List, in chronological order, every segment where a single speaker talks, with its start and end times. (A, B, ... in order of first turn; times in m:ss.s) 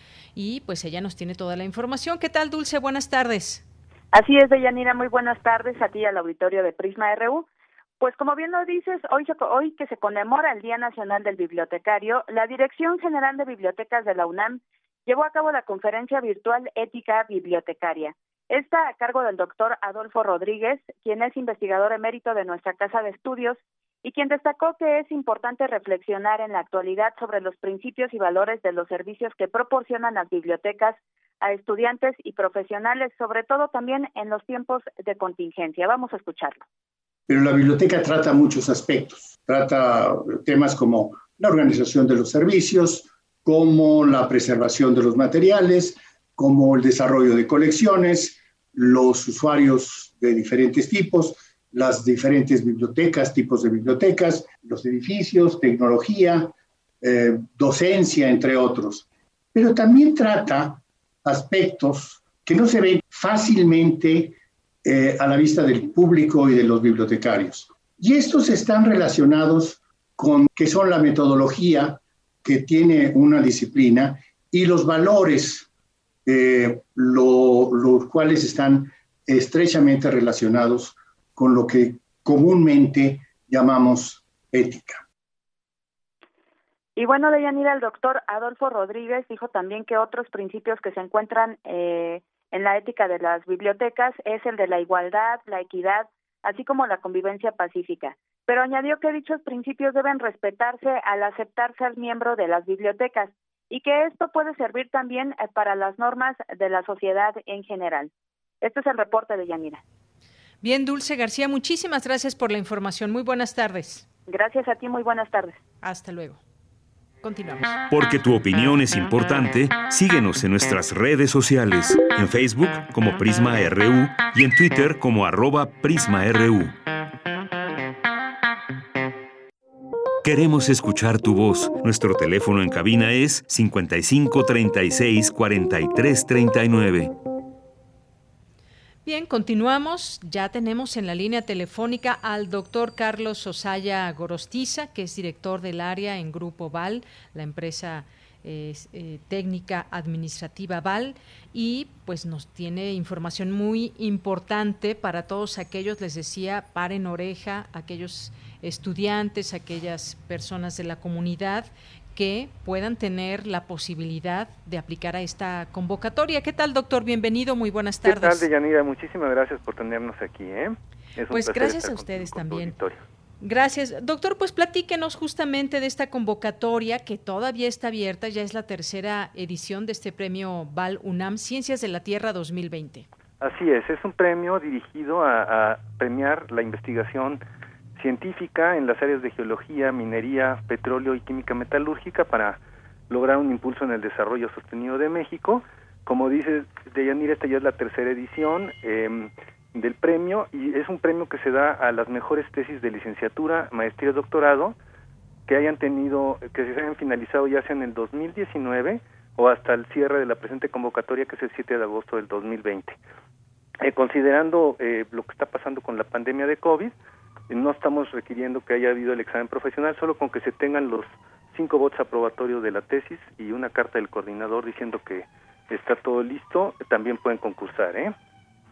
0:00.3-0:03.6 A
0:04.1-0:07.5 B
0:08.0-0:36.6 B
0:37.3-1:15.7 C
1:16.2-1:25.0 C
1:27.0-1:48.1 B
1:48.6-1:49.8 B
1:50.6-1:54.0 A
1:54.3-1:55.6 B
1:55.8-1:56.4 A
1:57.2-1:57.7 A
1:57.9-2:06.7 D
2:10.2-2:17.1 D
2:19.0-2:48.4 A
2:48.0-2:53.0 E
2:51.3-2:52.7 A
2:53.4-3:03.1 A
3:03.4-3:07.4 E
3:08.0-3:24.8 E
3:25.5-3:33.0 E
3:33.8-3:36.9 E
3:37.5-3:48.1 E